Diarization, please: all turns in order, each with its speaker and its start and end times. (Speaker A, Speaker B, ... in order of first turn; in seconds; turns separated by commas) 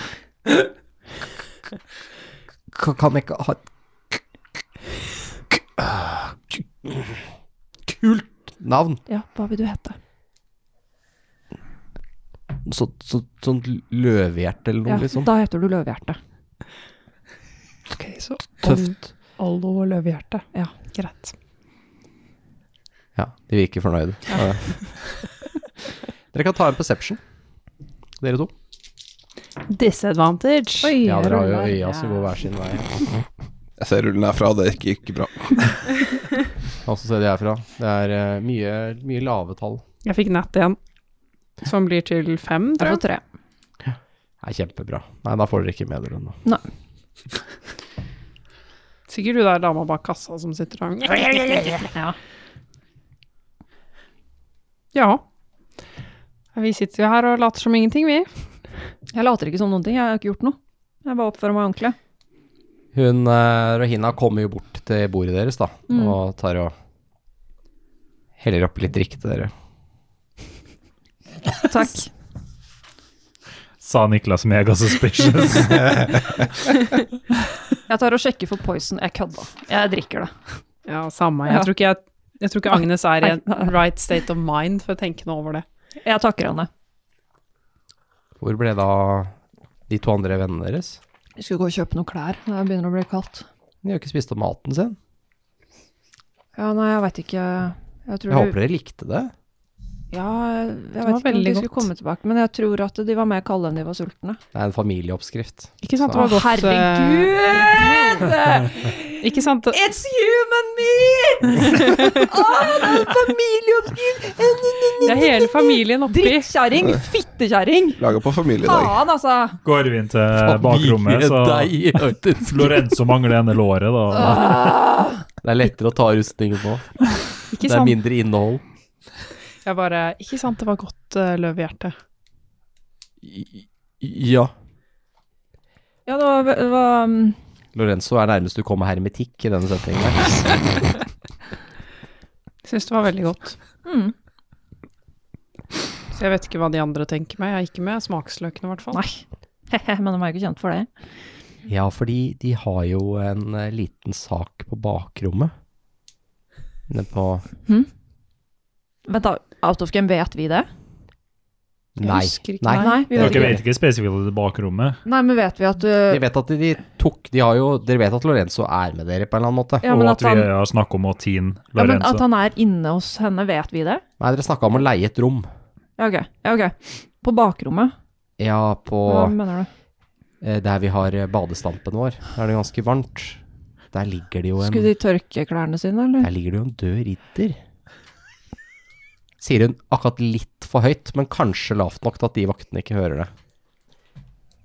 Speaker A: 2.7-3.6, Speaker A: 5.6-7.2, Speaker A: 7.9-9.0, Speaker B: 9.1-10.0, Speaker A: 12.6-15.3, Speaker B: 14.8-16.2, Speaker C: 17.9-21.3, Speaker A: 18.6-18.9, Speaker A: 23.1-24.7, Speaker A: 26.3-27.2, Speaker A: 28.2-28.5, Speaker C: 29.7-31.0, Speaker B: 30.8-32.1, Speaker A: 31.0-33.1, Speaker D: 33.8-35.8, Speaker A: 36.8-39.8, Speaker C: 40.0-40.8, Speaker C: 41.6-43.0, Speaker B: 42.8-43.2, Speaker A: 43.8-46.4, Speaker C: 49.1-51.9, Speaker B: 51.1-52.1, Speaker C: 54.9-55.2, Speaker C: 56.5-58.3, Speaker B: 59.1-62.0, Speaker A: 62.9-66.7, Speaker B: 65.9-66.2, Speaker A: 68.4-69.5, Speaker B: 71.6-72.1, Speaker E: 73.8-76.2, Speaker B: 77.9-80.3, Speaker C: 80.8-85.6, Speaker B: 82.7-83.7, Speaker B: 86.0-86.7, Speaker A: 88.4-89.3, Speaker A: 89.9-91.0, Speaker B: 91.4-93.5, Speaker A: 93.8-95.0, Speaker B: 96.5-98.5, Speaker A: 98.3-99.3, Speaker B: 100.1-104.4, Speaker C: 101.0-101.9, Speaker A: 104.5-106.2, Speaker C: 105.8-108.3, Speaker B: 106.1-118.0, Speaker C: 109.2-109.8, Speaker C: 111.6-112.2, Speaker C: 115.0-116.5, Speaker D: 118.0-119.0, Speaker B: 118.6-119.6, Speaker E: 119.6-121.9, Speaker A: 120.4-122.9, Speaker E: 122.5-124.5, Speaker B: 124.2-125.0, Speaker A: 125.4-127.0, Speaker C: 127.5-128.0, Speaker A: 127.6-128.6, Speaker C: 129.6-131.9, Speaker A: 133.2-134.5, Speaker B: 136.1-137.3, Speaker A: 137.7-140.6, Speaker C: 142.6-143.6, Speaker B: 143.8-144.1, Speaker C: 146.1-149.0, Speaker B: 148.9-150.9, Speaker A: 151.7-155.5, Speaker A: 156.9-157.4, Speaker B: 159.1-160.7, Speaker A: 161.9-163.6, Speaker C: 162.0-163.4, Speaker B: 162.7-163.5, Speaker E: 163.1-165.0, Speaker B: 165.0-166.2, Speaker A: 166.1-169.8, Speaker B: 169.8-170.5, Speaker E: 169.9-172.2, Speaker B: 171.8-174.0, Speaker A: 174.2-175.5, Speaker B: 176.0-177.9, Speaker A: 178.4-179.3, Speaker B: 179.1-179.7, Speaker A: 180.4-183.4, Speaker A: 183.9-184.9, Speaker B: 184.6-186.3, Speaker A: 186.2-187.6, Speaker A: 189.4-193.3